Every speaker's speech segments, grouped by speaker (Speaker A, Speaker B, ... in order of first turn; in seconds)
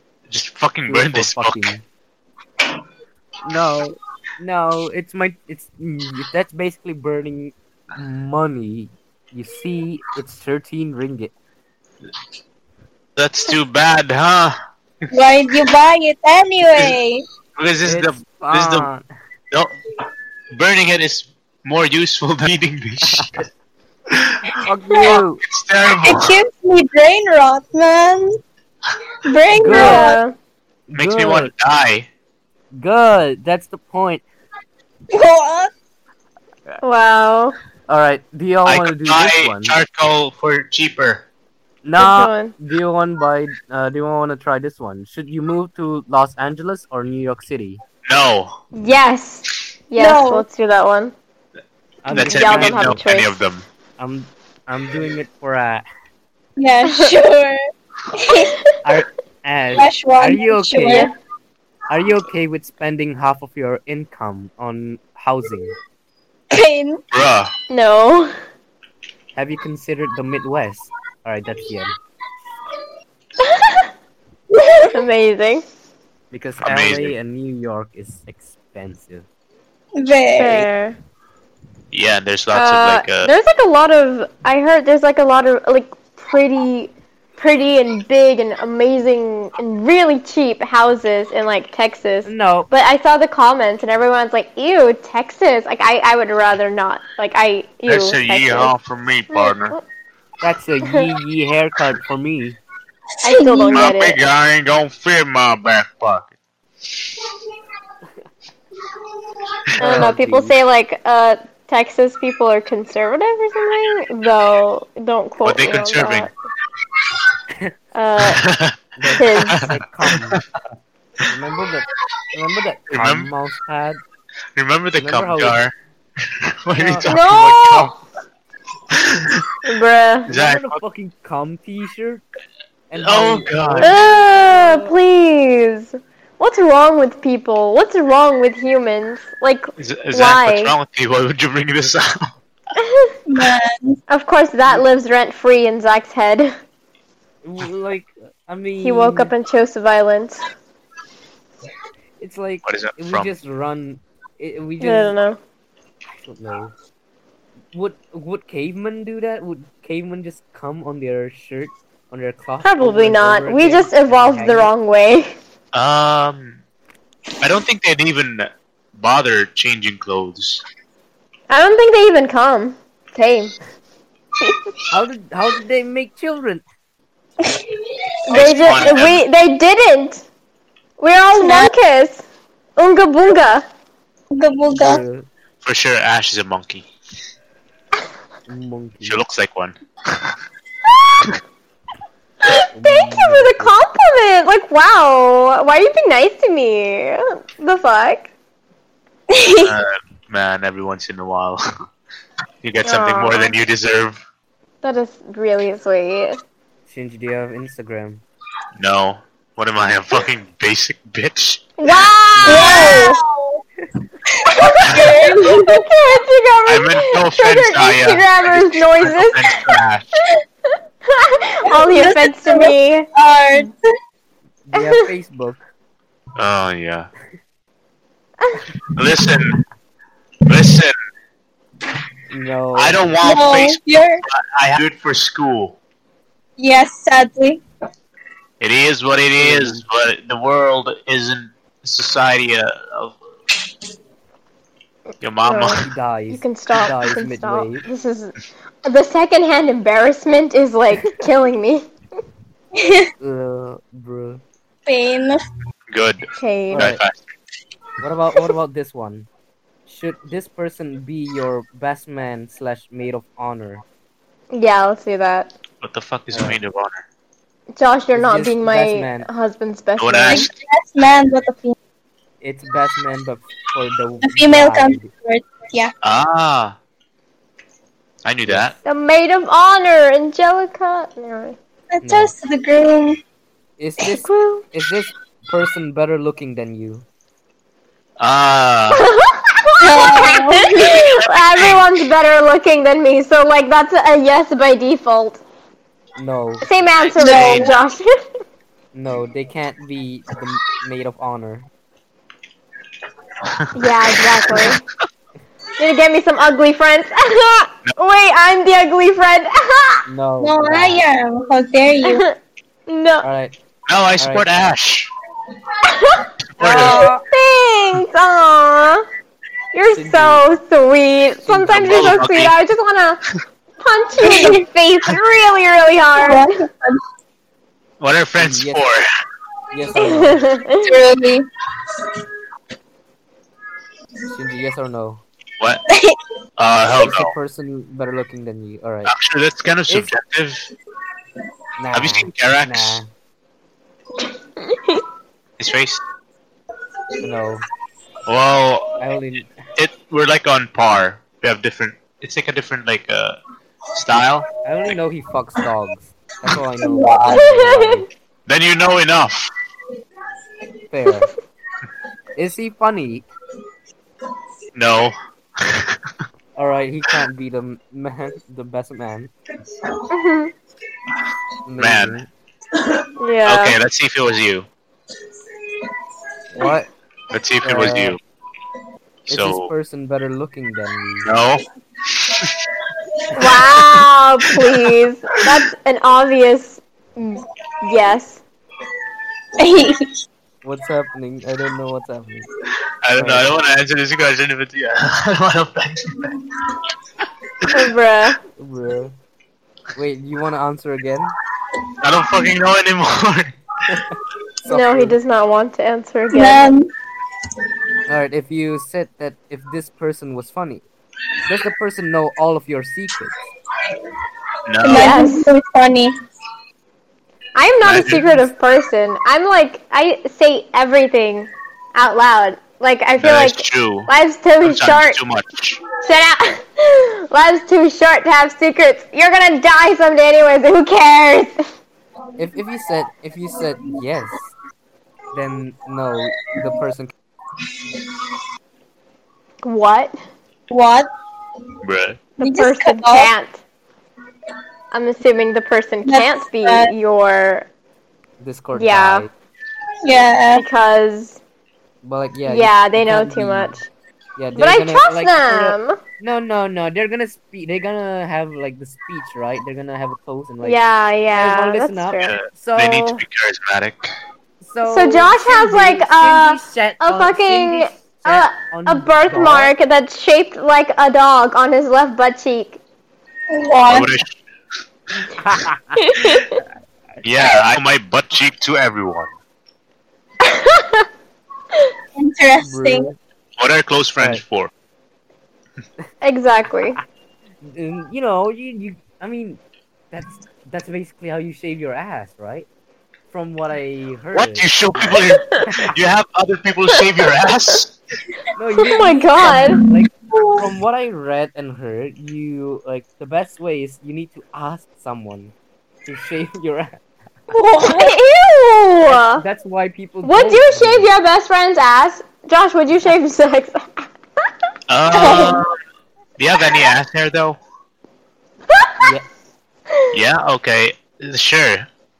Speaker A: 0.3-1.6, 13.2-14.6, 17.6-18.9, 20.5-23.5, 24.1-24.4, 25.0-26.3, 30.9-32.1, 38.6-41.2, 48.0-48.5, 52.1-53.6, 67.1-67.5, 76.6-77.1, 81.9-83.3, 97.9-99.8, 103.7-106.3, 115.4-116.3, 118.2-118.8, 119.4-120.4, 122.9-123.3, 124.5-125.7, 126.2-128.0, 128.9-129.4, 130.3-130.8, 133.0-133.9, 139.8-142.3, 152.6-153.3, 165.7-166.6, 167.4-170.6, 178.3-179.2, 185.6-186.9, 189.0-190.3, 199.6-201.6, 202.6-204.2, 208.8-211.6, 214.8-215.2, 216.7-220.2, 226.4-227.1, 228.9-229.6, 230.4-230.9, 232.8-235.8, 238.6-243.2, 245.2-245.8, 255.9-257.2, 265.8-267.0, 270.0-270.5, 276.0-276.8, 278.2-278.7, 288.2-289.0, 290.7-291.9, 297.2-297.7, 303.4-304.8, 313.9-315.1, 316.6-317.0, 321.8-322.5, 328.0-329.0, 336.6-337.3, 339.1-340.7, 341.9-343.0, 345.6-346.0, 348.2-349.0, 349.8-353.4, 353.9-354.4, 358.5-359.5, 364.7-366.1, 371.8-372.2, 373.4-374.7, 377.3-378.2, 379.3-379.7, 381.2-382.6, 383.4-383.9, 393.0-396.4, 402.0-403.5, 414.7-415.2, 417.8-418.3, 423.2-424.1, 424.6-425.8, 441.8-442.2, 462.2-464.1, 473.9-474.4, 477.2-479.3, 483.6-484.7, 494.3-497.9, 514.9-515.7, 516.4-517.6, 520.1-521.9
Speaker B: 0.9-1.8, 3.4-11.3, 17.8-19.0, 23.1-23.4, 24.4-25.4, 29.5-30.1, 30.9-31.5, 32.7-34.2, 37.9-39.8, 41.8-47.8, 52.0-53.0, 54.0-55.8, 58.8-61.1, 61.9-65.7, 69.3-72.0, 76.3-79.2, 92.2-92.7, 100.4-102.6, 109.8-110.5, 119.0-120.4, 121.3-124.0, 125.0-125.6, 126.8-127.0, 130.3-132.2, 132.9-134.9, 147.4-149.3, 152.2-155.2, 156.1-156.7, 157.7-164.7, 174.9-176.6, 184.7-185.2, 188.5-189.2, 192.7-193.7, 206.9-208.2, 212.4-213.1, 224.7-225.6, 232.3-233.0, 239.3-239.8, 245.8-247.8, 253.2-254.4, 256.7-257.0, 258.0-259.3, 259.9-263.8, 266.3-266.6, 268.1-269.3, 272.4-275.1, 278.4-278.8, 282.0-282.3, 283.8-287.0, 296.2-296.6, 298.9-301.7, 310.1-311.0, 313.2-313.5, 314.2-314.5, 316.6-317.2, 319.9-320.4, 321.4-322.2, 328.4-328.8, 329.7-330.5, 334.3-335.2, 336.9-339.1, 341.8-343.1, 347.2-347.6, 349.0-349.6, 354.6-358.1, 360.9-361.3, 362.4-363.3, 366.6-369.3, 371.6-372.3, 376.5-376.9, 377.6-378.2, 379.3-381.3, 390.6-392.5, 393.1-393.5, 398.5-399.1, 399.9-401.3, 403.9-405.2, 408.1-410.8, 411.4-413.4, 432.4-434.5, 435.3-437.1, 448.4-449.3, 452.0-453.8, 454.4-460.8, 461.3-463.2, 464.6-469.7, 475.3-476.0, 482.6-483.2, 487.6-492.7, 493.3-495.9, 498.5-505.5, 506.1-507.0, 509.1-511.1, 519.0-519.2
Speaker C: 15.1-17.2, 26.0-28.4, 29.2-30.2, 35.1-35.7, 50.0-50.4, 56.6-57.6, 58.1-58.6, 59.8-61.1, 66.5-67.0, 74.5-74.9, 80.0-80.7, 103.3-103.7, 143.3-144.0, 181.3-181.7, 184.3-185.0, 199.3-199.7, 212.4-213.6, 214.4-215.8, 221.7-223.9, 233.2-234.2, 236.6-237.6, 252.8-253.1, 254.9-255.4, 270.3-271.7, 274.2-275.9, 281.9-283.2, 289.8-290.9, 297.2-297.8, 310.4-312.2, 324.2-324.6, 326.2-327.0, 330.8-331.5, 335.9-336.2, 356.8-357.4, 389.6-390.1, 406.3-406.9, 414.8-416.1, 440.7-441.1, 442.4-443.3, 446.0-446.9, 450.0-450.6, 473.5-474.1, 482.1-483.1, 500.3-500.6, 507.5-508.1, 515.1-515.6
Speaker D: 29.7-30.3, 36.8-37.5, 42.0-42.5, 48.7-51.1, 52.1-53.4, 67.7-68.3, 73.4-73.9, 74.8-75.6, 80.3-81.0, 82.5-98.7, 99.3-99.8, 103.2-104.2, 109.8-116.3, 117.9-118.4, 119.1-119.7, 127.0-127.9, 129.6-130.3, 133.8-140.7, 142.8-143.1, 144.1-146.5, 148.8-150.4, 154.8-155.4, 162.6-165.3, 171.5-173.5, 178.3-180.2, 181.0-182.2, 182.8-183.6, 192.4-198.3, 202.8-203.5, 204.8-206.4, 211.8-213.2, 214.6-219.6, 221.0-223.1, 224.8-225.0, 245.4-251.8, 256.4-256.9, 264.5-265.5, 267.8-270.5, 278.8-281.6, 284.2-284.6, 288.9-295.4, 296.6-298.2, 303.7-304.8, 305.8-310.0, 312.1-312.4, 312.9-313.2, 315.8-319.1, 319.7-323.2, 323.8-326.5, 329.9-331.0, 344.6-345.0, 357.2-357.9, 370.1-370.5, 373.2-373.8, 383.3-388.4, 397.7-398.4, 404.7-406.7, 414.9-415.5, 417.5-425.2, 426.0-431.7, 439.6-440.2, 442.4-443.6, 444.9-447.7, 448.7-449.3, 450.5-451.4, 452.4-453.8, 454.5-456.0, 460.6-462.3, 464.8-472.8, 476.0-476.6, 480.4-481.1, 486.2-487.0, 498.8-499.8, 507.8-509.4, 510.2-514.1, 515.2-515.6